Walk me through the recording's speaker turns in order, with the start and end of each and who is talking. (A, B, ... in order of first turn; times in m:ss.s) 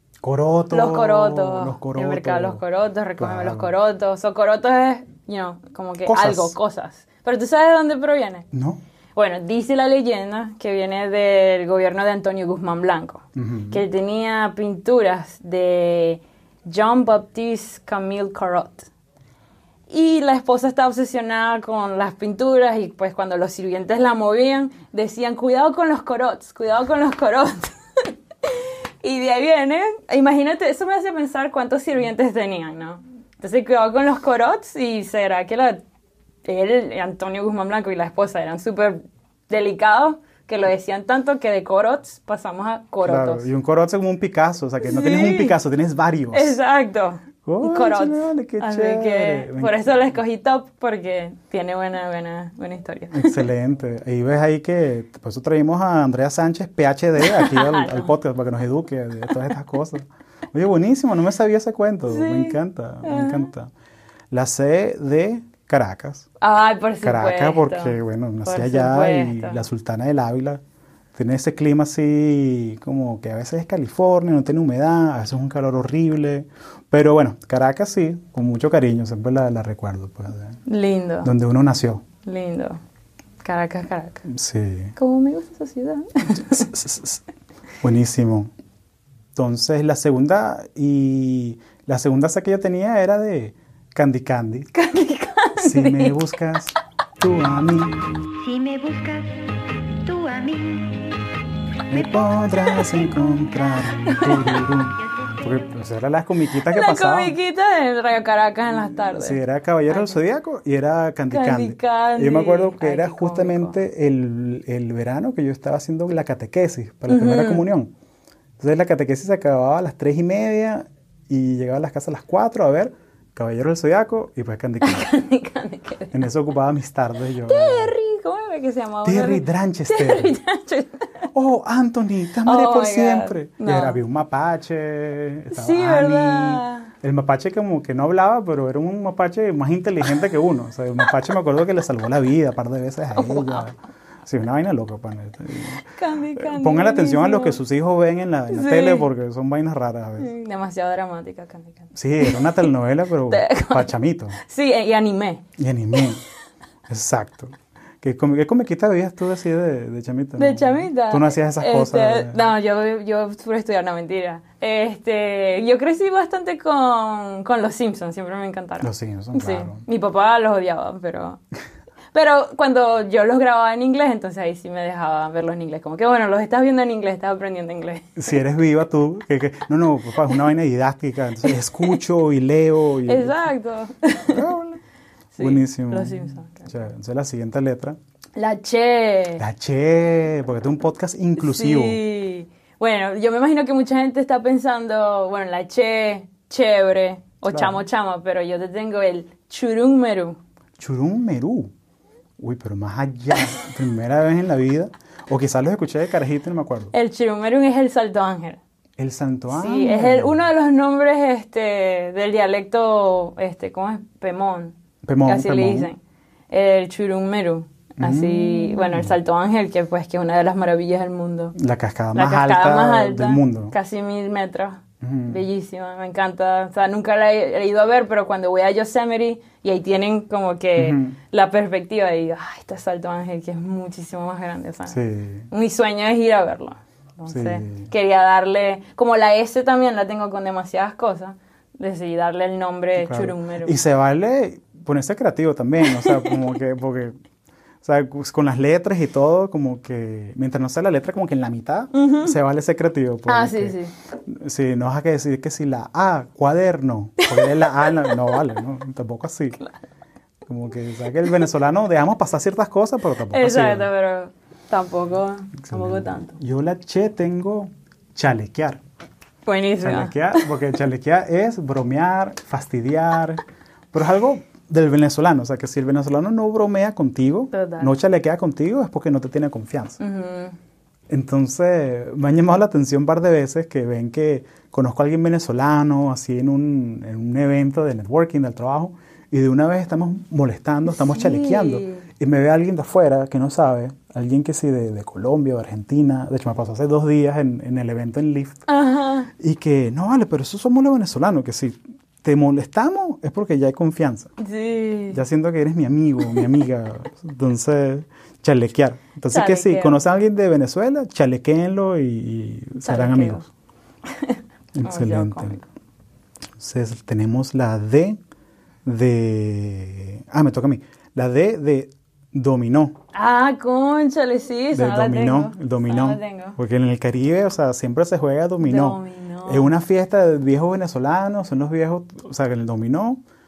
0:00.2-0:02.6 A
0:00.7-0:08.5 B
0:03.2-0:03.7 A
0:06.0-0:06.6 A
0:08.5-0:08.8 A
0:09.1-0:18.9 B
0:13.3-0:13.8 A
0:19.9-0:35.8 B
0:36.4-0:43.5 B
0:43.0-0:46.6 A
0:44.8-0:45.6 B
0:46.3-0:53.4 B
0:47.4-0:50.1 A
0:53.1-1:03.7 A
0:57.2-0:58.1 B
1:02.1-1:03.5 B
1:04.3-1:06.3 A
1:06.4-1:09.6 B
1:07.0-1:10.6 A
1:11.1-1:20.6 A
1:20.6-1:21.3 B
1:21.2-1:22.0 A
1:22.2-1:22.8 B
1:23.4-1:24.2 B
1:24.2-1:24.9 A
1:25.0-1:26.7 B
1:26.4-1:27.2 A
1:27.8-1:28.5 A
1:29.3-1:34.7 A
1:34.7-1:36.3 B
1:35.6-1:38.0 A
1:38.4-1:39.4 C
1:40.0-1:41.2 C
1:41.9-1:47.4 A
1:41.9-1:42.9 C
1:44.0-1:44.3 B
1:45.0-1:45.6 C
1:46.7-1:50.2 B
1:48.7-1:57.9 A
1:51.3-1:53.8 B
1:57.1-1:57.6 B
1:58.6-2:05.1 A
2:04.8-2:06.1 B
2:06.1-2:07.9 A
2:07.4-2:11.2 B
2:09.0-2:10.4 A
2:11.3-2:30.3 A
2:12.4-2:14.0 B
2:15.5-2:16.9 B
2:23.1-2:23.7 B
2:25.9-2:27.6 B
2:28.5-2:29.1 B
2:30.2-2:32.7 B
2:31.9-2:34.4 A
2:33.3-2:35.4 B
2:35.6-2:36.2 A
2:36.9-2:42.4 A
2:40.4-2:51.4 B
2:48.8-2:49.8 A
2:52.1-2:58.2 B
2:58.2-3:03.5 A
3:01.4-3:02.0 B
3:03.0-3:04.5 B
3:04.3-3:04.8 A
3:05.3-3:06.8 B
3:05.4-3:08.0 A
3:08.4-3:09.4 B
3:09.4-3:12.0 A
3:11.4-3:20.4 B
3:17.5-3:17.8 A
3:20.8-3:21.7 A
3:22.4-3:26.9 A
3:26.9-3:28.6 B
3:29.0-3:30.4 A
3:29.5-3:36.0 B
3:35.0-3:35.9 A
3:36.5-3:41.5 B
3:38.0-3:39.1 A
3:41.5-3:43.7 A
3:42.1-3:55.0 B
3:45.0-3:45.4 A
3:50.8-3:51.2 A
3:54.9-3:55.5 A
3:55.5-4:03.8 B
3:57.3-3:57.9 A
4:03.0-4:07.2 A
4:05.8-4:06.4 B
4:07.8-4:19.6 A
4:11.9-4:12.4 B
4:13.3-4:13.9 B
4:17.2-4:18.3 B
4:20.5-4:23.9 A
4:23.3-4:26.4 B
4:25.6-4:28.8 A
4:29.4-4:30.5 B
4:29.8-4:33.4 A
4:33.9-4:40.0 A
4:37.5-4:38.0 B
4:40.0-4:40.6 B
4:41.1-4:58.6 A
4:50.9-4:52.0 B
4:58.7-4:59.3 B
4:59.3-5:04.3 A
5:04.4-5:05.2 B
5:05.1-5:13.5 A
5:09.3-5:10.0 B
5:12.8-5:13.4 B
5:14.1-5:15.6 B
5:14.7-5:15.6 A
5:16.6-5:18.2 A
5:18.8-5:23.0 A
5:23.1-5:26.6 B
5:24.7-5:33.2 A
5:28.6-5:29.7 B